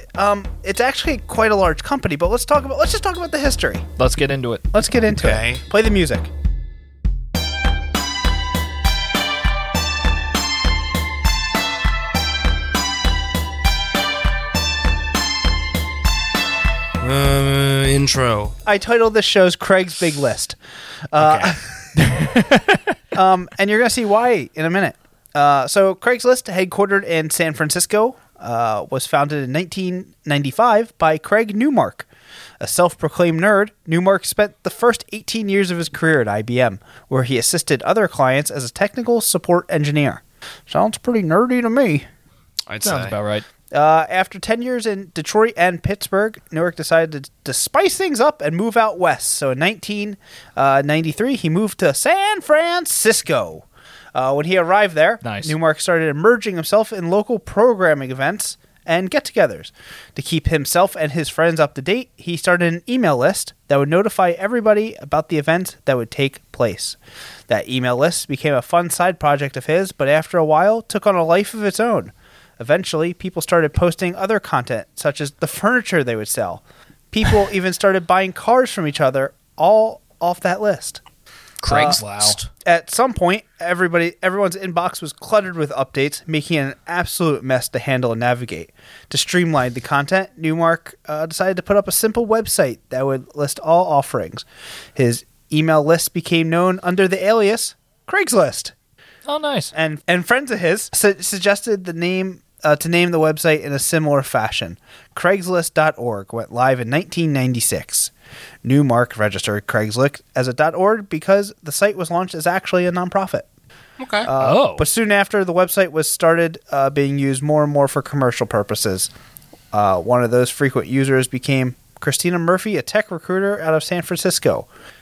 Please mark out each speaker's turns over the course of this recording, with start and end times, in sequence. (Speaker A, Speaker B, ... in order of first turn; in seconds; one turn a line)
Speaker A: 0.2-3.9
Speaker B: 4.0-4.7
Speaker A: 4.7-6.3
Speaker C: 5.1-5.6
Speaker C: 17.0-18.6
Speaker A: 18.6-20.6
Speaker A: 21.1-21.9
Speaker C: 21.2-21.5
Speaker B: 22.0-22.9
Speaker A: 23.1-32.1
Speaker A: 32.6-42.1
Speaker C: 42.7-43.2
Speaker B: 42.8-43.5
Speaker A: 43.7-67.0
Speaker B: 55.2-55.5
Speaker A: 67.5-81.0
Speaker C: 81.6-82.5
Speaker A: 81.7-82.0
Speaker B: 81.7-82.4
Speaker A: 82.6-94.5
Speaker A: 95.0-98.7
Speaker B: 99.3-99.7
Speaker A: 99.7-108.1
Speaker A: 108.6-113.5
Speaker C: 114.0-114.3
Speaker A: 114.2-119.1
Speaker B: 114.4-114.8
Speaker A: 119.7-124.7